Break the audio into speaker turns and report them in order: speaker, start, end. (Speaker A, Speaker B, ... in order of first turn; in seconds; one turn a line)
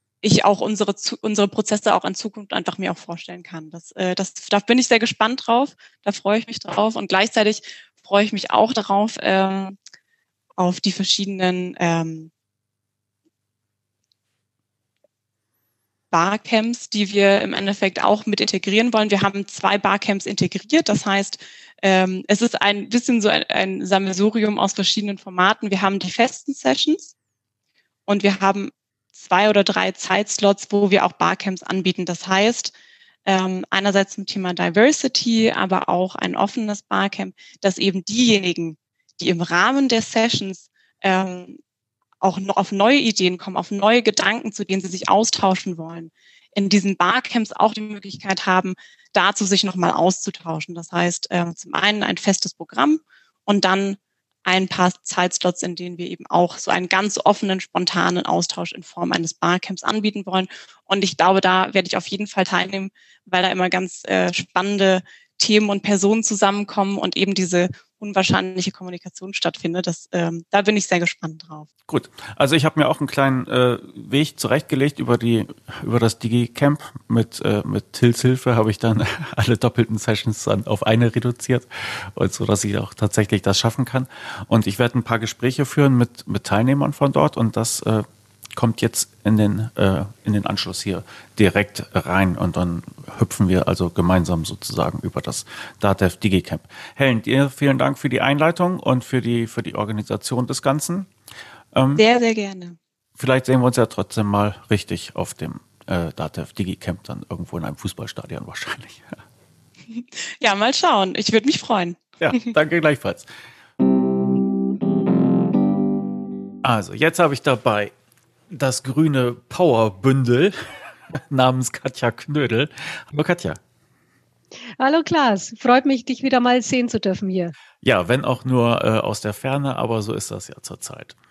Speaker A: 0.2-9.8
Speaker A: 10.6-12.3
Speaker A: 16.1-27.1
Speaker A: 28.1-32.7
Speaker A: 33.2-41.6
Speaker A: 42.2-71.7
Speaker B: 71.9-101.1
Speaker B: 101.7-102.0
Speaker A: 102.0-102.8
Speaker B: 103.2-109.2
Speaker A: 109.9-112.4
Speaker B: 112.2-113.3
Speaker B: 116.6-117.9
Speaker B: 118.5-120.6
Speaker B: 121.1-123.6
Speaker C: 124.8-127.5
Speaker B: 127.8-131.1